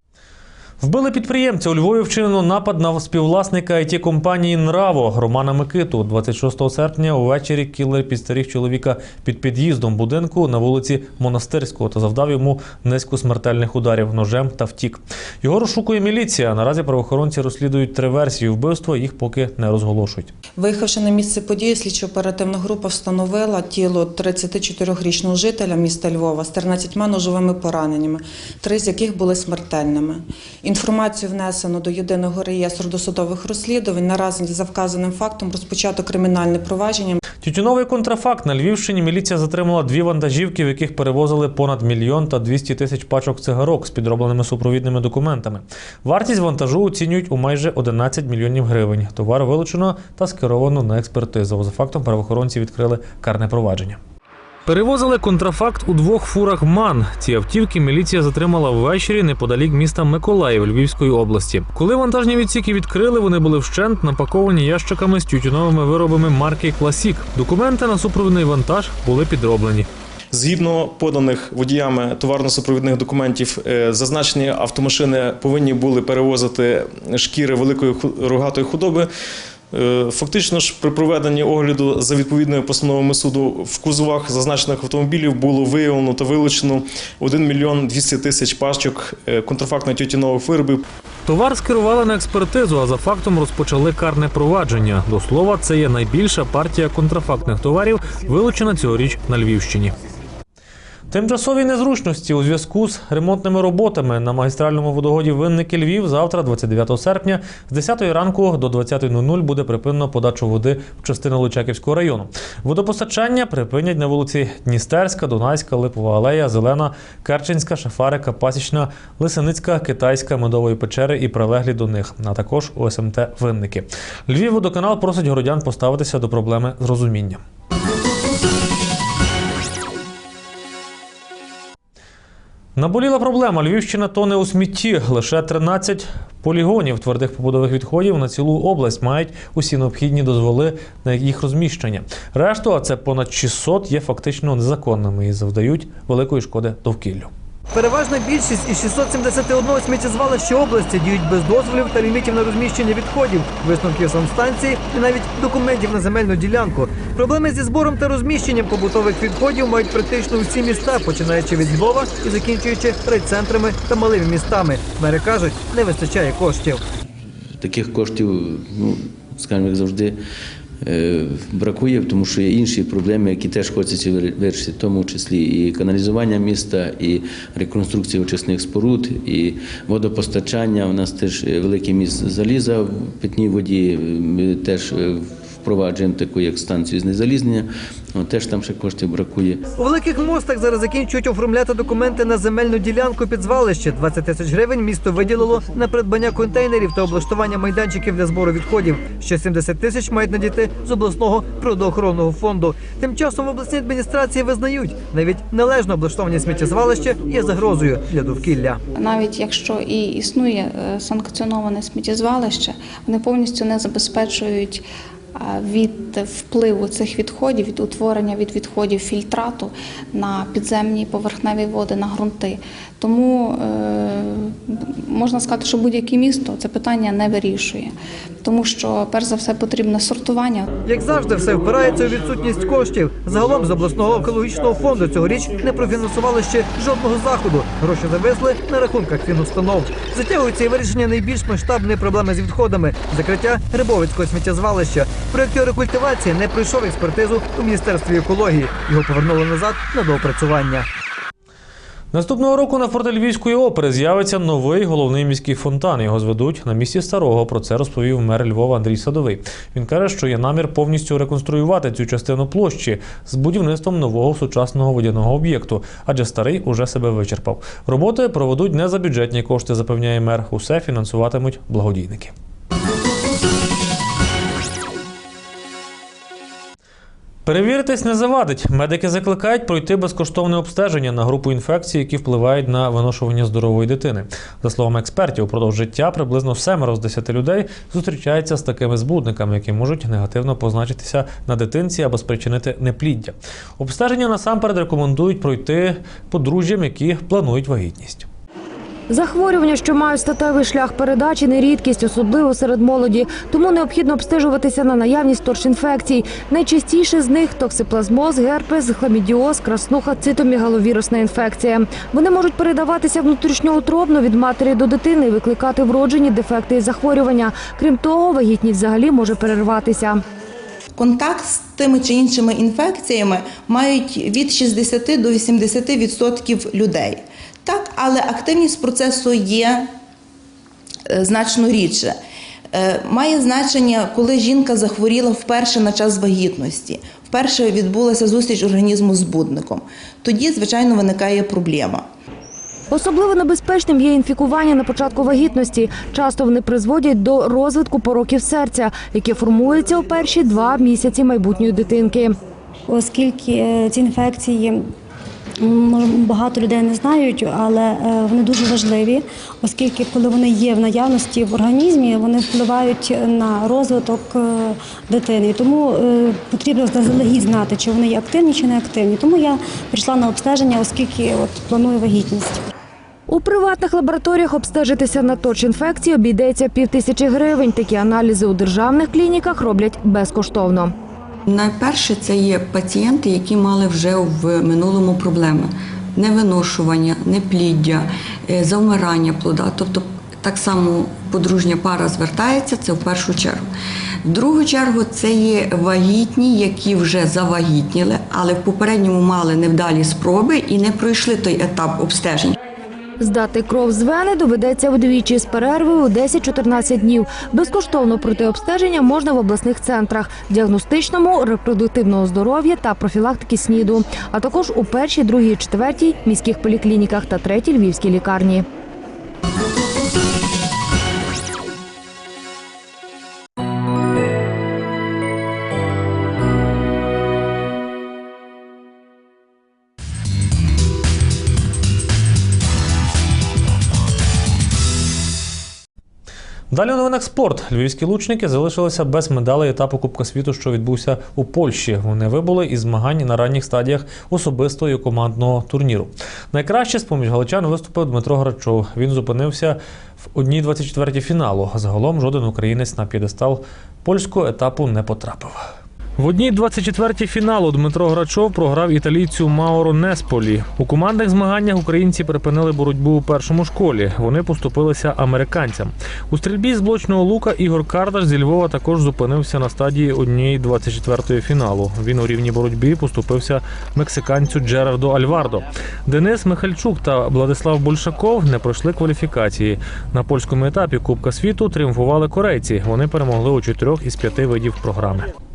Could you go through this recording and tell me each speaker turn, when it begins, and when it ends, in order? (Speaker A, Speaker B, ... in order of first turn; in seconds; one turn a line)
Speaker A: 0.8-20.3
Speaker B: 20.6-37.2
Speaker A: 37.4-54.0
Speaker A: 54.6-69.9
Speaker C: 70.3-79.1
Speaker C: 79.7-90.8
Speaker A: 91.2-99.9
Speaker A: 101.1-127.4
Speaker A: 132.8-147.3
Speaker D: 147.7-166.8
Speaker E: 167.6-170.2
Speaker E: 170.8-189.6
Speaker D: 189.8-208.8
Speaker F: 208.9-214.8
Speaker F: 215.3-230.7
Speaker D: 230.8-250.9
Speaker A: 252.1-272.3
Speaker A: 277.4-298.3
Speaker G: 299.1-320.2
Speaker H: 320.9-329.9
Speaker H: 331.1-332.1
Speaker H: 332.7-342.1
Speaker G: 342.9-352.4
Speaker I: 352.9-354.9
Speaker I: 355.6-372.6
Speaker G: 373.3-380.9
Speaker J: 381.5-393.7
Speaker J: 394.2-402.6
Speaker G: 403.2-418.6
Speaker A: 436.7-485.3